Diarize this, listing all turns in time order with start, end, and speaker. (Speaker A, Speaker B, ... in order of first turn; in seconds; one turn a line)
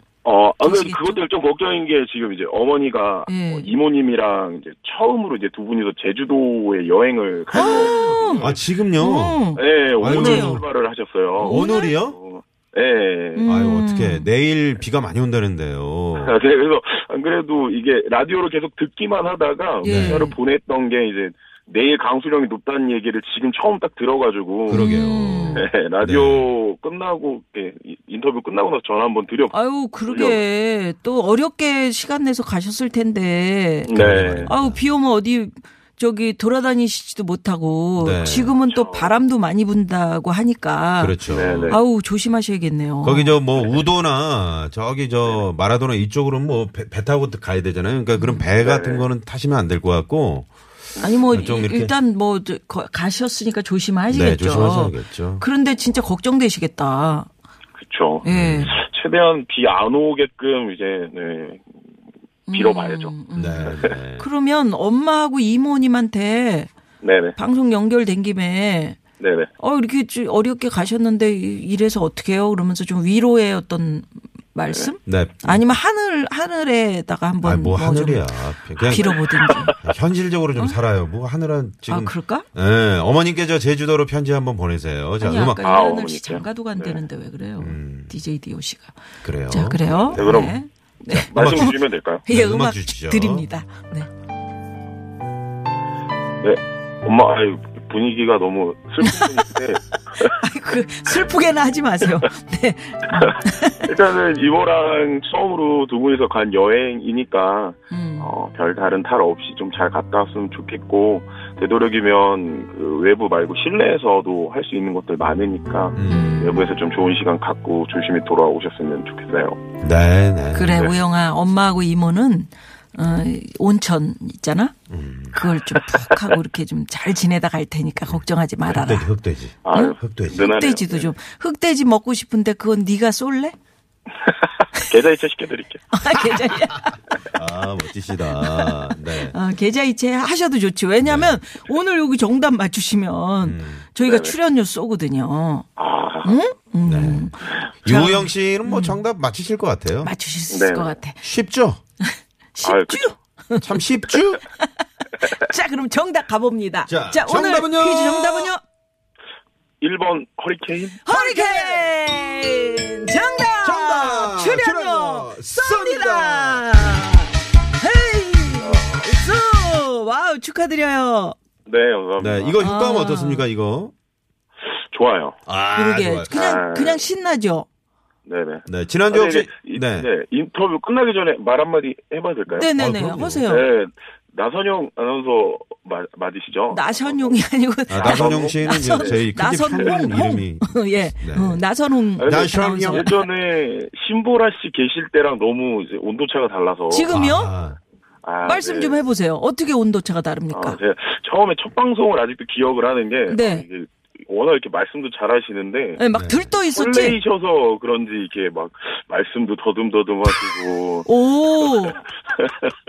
Speaker A: 0.2-8.6
Speaker B: 0.6-1.2
Speaker B: 3.3-3.7
Speaker B: 7.5-10.6
Speaker C: 7.5-10.6
Speaker A: 9.6-13.5
Speaker B: 11.4-12.0
Speaker C: 11.4-12.2
Speaker B: 13.4-14.3
Speaker C: 13.5-16.4
Speaker A: 16.2-24.9
Speaker B: 19.8-20.4
Speaker C: 19.8-20.3
Speaker C: 24.7-26.5
Speaker B: 24.7-25.7
Speaker A: 25.5-30.4
Speaker B: 29.5-43.4
Speaker A: 33.9-34.5
Speaker C: 33.9-34.8
Speaker C: 38.0-38.6
Speaker A: 38.2-39.1
Speaker C: 41.0-41.8
Speaker A: 41.3-41.8
Speaker C: 43.0-50.5
Speaker B: 48.1-48.5
Speaker A: 48.6-49.1
Speaker B: 51.0-57.3
Speaker C: 51.3-51.9
Speaker C: 54.1-55.5
Speaker A: 57.8-61.7
Speaker B: 58.2-58.7
Speaker C: 58.3-58.8
Speaker B: 62.5-66.7
Speaker A: 62.5-63.1
Speaker C: 63.4-64.3
Speaker A: 63.7-63.9
Speaker A: 67.0-67.4
Speaker B: 67.4-69.0
Speaker A: 69.2-69.5
Speaker B: 69.6-79.8
Speaker C: 75.0-75.7
Speaker C: 77.4-79.2
Speaker A: 78.9-79.8
Speaker C: 79.8-85.6
Speaker B: 81.9-82.5
Speaker B: 85.2-88.9
Speaker A: 85.6-87.0
Speaker C: 87.6-88.2
Speaker C: 89.2-90.6
Speaker B: 89.5-94.1
Speaker A: 90.1-90.6
Speaker C: 91.1-91.7
Speaker A: 91.3-92.2
Speaker C: 92.3-93.5
Speaker A: 96.4-100.3
Speaker B: 100.2-103.9
Speaker A: 103.2-119.6
Speaker B: 107.9-108.3
Speaker C: 116.0-116.4
Speaker B: 116.0-116.7
Speaker C: 119.8-120.8
Speaker B: 120.5-124.7
Speaker A: 120.7-121.0
Speaker C: 124.9-125.4
Speaker B: 125.3-129.1
Speaker C: 128.0-130.5
Speaker A: 129.6-131.2
Speaker B: 129.7-133.6
Speaker A: 134.2-135.8
Speaker B: 135.9-137.0
Speaker C: 136.2-139.4
Speaker B: 138.1-145.7
Speaker C: 141.0-141.4
Speaker C: 143.4-143.9
Speaker A: 144.0-144.3
Speaker A: 145.8-146.4
Speaker B: 146.2-149.0
Speaker C: 146.8-147.3
Speaker C: 147.8-150.1
Speaker B: 150.0-151.2
Speaker A: 150.5-151.0
Speaker C: 151.2-151.8
Speaker B: 152.0-158.6
Speaker A: 152.6-153.2
Speaker C: 153.6-154.4
Speaker C: 156.9-158.5
Speaker A: 159.8-161.0
Speaker B: 161.0-171.4
Speaker C: 161.1-161.9
Speaker C: 163.6-166.8
Speaker A: 168.5-169.2
Speaker A: 171.7-172.6
Speaker C: 172.2-173.9
Speaker B: 172.6-173.5
Speaker A: 174.7-175.4
Speaker C: 175.5-176.4
Speaker B: 175.8-177.7
Speaker A: 176.3-177.1
Speaker A: 178.3-182.7
Speaker C: 178.7-180.1
Speaker B: 182.5-183.7
Speaker C: 182.7-183.5
Speaker A: 183.5-190.1
Speaker B: 186.7-193.3
Speaker C: 187.9-191.6
Speaker C: 192.2-193.1
Speaker A: 192.2-197.1
Speaker B: 196.9-197.6
Speaker C: 197.1-197.8
Speaker A: 198.2-199.0
Speaker B: 198.4-200.8
Speaker A: 200.5-206.0
Speaker B: 203.3-203.7
Speaker B: 206.0-207.2
Speaker C: 206.1-206.6
Speaker A: 206.7-211.1
Speaker B: 211.0-212.0
Speaker A: 211.6-212.8